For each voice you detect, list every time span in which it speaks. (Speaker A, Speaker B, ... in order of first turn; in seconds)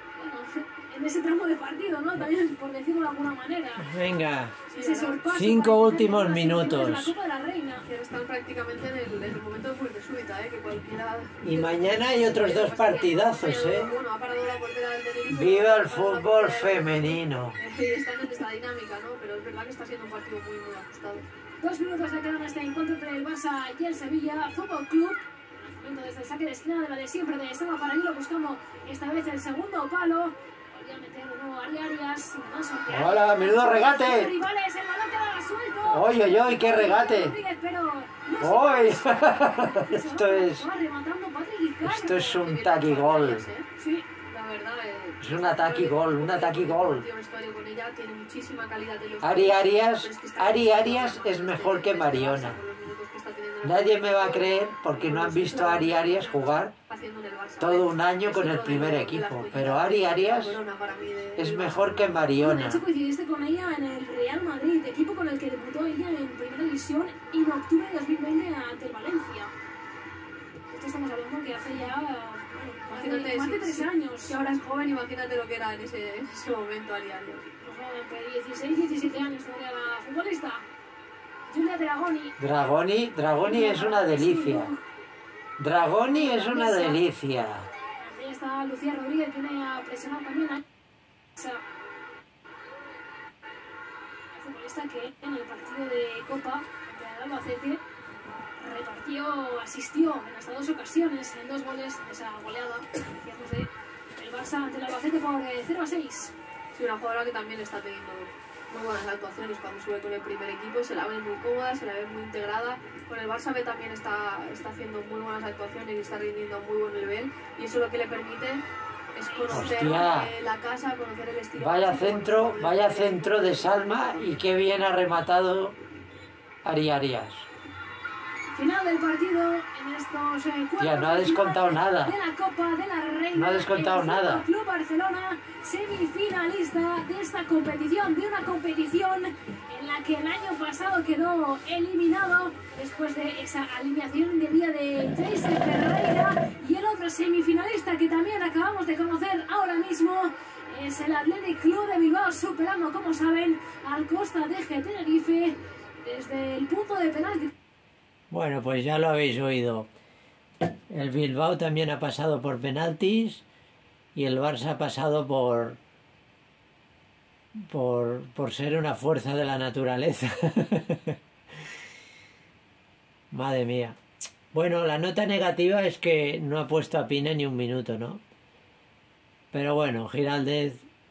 Speaker A: 0.1-3.9, 4.8-7.8, 21.6-42.3, 43.8-44.0, 62.4-69.5, 70.7-74.3, 77.6-80.6, 81.5-82.3, 83.4-84.8, 86.1-87.0, 88.0-90.6, 91.3-91.6, 94.3-97.8, 98.6-106.3, 119.2-119.7, 128.5-157.5
Speaker B: 3.8-4.6, 5.3-7.1, 11.4-13.9, 15.3-17.6, 32.9-34.3, 35.9-37.4, 38.4-40.7, 41.8-43.4, 45.2-47.0, 49.2-52.6, 53.6-56.7, 57.6-60.6, 61.4-62.8, 82.4-84.7, 85.6-87.7, 119.5-120.3, 121.6-125.8, 126.6-127.5, 130.8-132.1, 133.3-134.4, 158.3-159.9, 160.9-163.4, 164.1-165.8, 167.7-171.2, 173.3-174.0, 174.5-178.2, 179.5-180.8
Speaker C: 4.7-5.2, 7.8-21.2, 42.1-62.0, 72.9-77.5, 106.7-118.6, 119.1-124.4